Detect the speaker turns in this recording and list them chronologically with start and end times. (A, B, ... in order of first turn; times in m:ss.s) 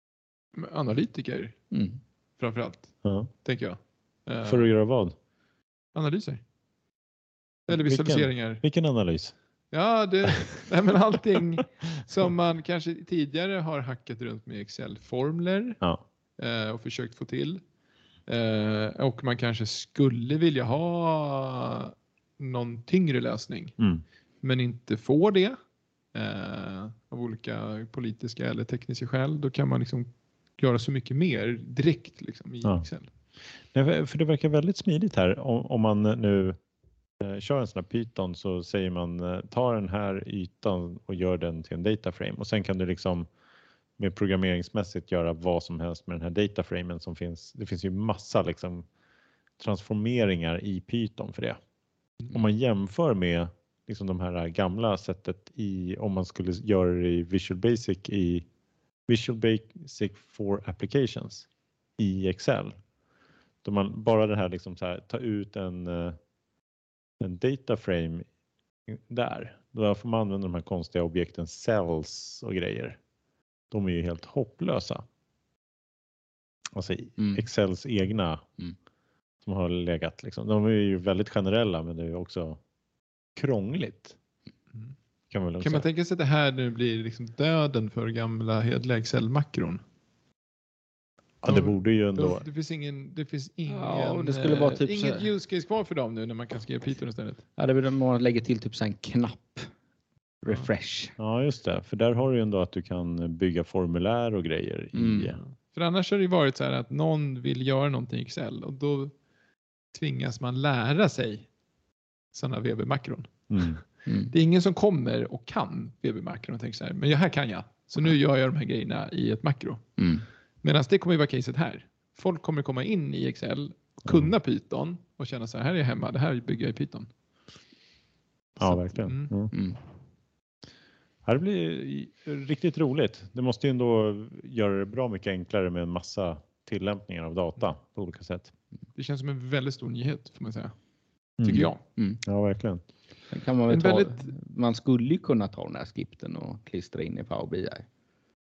0:00.6-0:01.6 A
0:01.7-0:02.0 B
0:02.4-0:02.9 A
0:03.0-0:03.3 C
0:03.4-0:04.7 A
0:04.4-0:05.1 C
0:05.9-0:06.4 A
0:07.7-0:08.6 A
0:07.7-0:09.3 C
0:09.7-0:15.8 A
0:16.4-0:17.6 A
0:18.3-0:23.8 A
0:24.4-0:25.6 A
0:26.1-0:33.1 A
0:33.7-0:36.6 C
0:37.2-0:43.3 C
0:44.0-0:48.8 C
0:49.6-0:51.6 C
0:52.3-0:58.4 C
0:59.1-1:01.5 C
1:02.0-1:02.8 C
1:03.6-1:06.2 C
1:07.2-1:08.2 C
1:08.9-1:13.0 C
1:13.7-1:15.0 C
1:16.7-1:18.4 C
1:17.2-1:17.4 B
1:19.4-1:22.6 C
1:23.4-1:24.2 C
1:25.3-1:25.8 C
1:25.6-1:29.8 A
1:31.4-1:32.4 C
1:31.5-1:37.4 A
1:33.7-1:35.3 B
1:37.6-1:39.7 B
1:40.4-1:41.1 B
1:41.2-1:45.4 C
1:44.9-1:45.3 B
1:45.4-1:49.1 A
1:49.9-1:51.5 A
1:52.3-1:59.8 A
1:53.5-1:53.8 C
1:54.0-1:54.3 B
2:00.0-2:00.2 B
2:00.6-2:07.1 A
2:04.0-2:04.3 C
2:08.6-2:09.5 C
2:08.6-2:09.3 A
2:09.5-2:09.8 B
2:11.2-2:18.5 C
2:18.9-2:20.7 A
2:21.4-2:21.7 C
2:21.4-2:21.8 A
2:22.2-2:22.8 C
2:23.3-2:27.8 B
2:23.7-2:24.3 A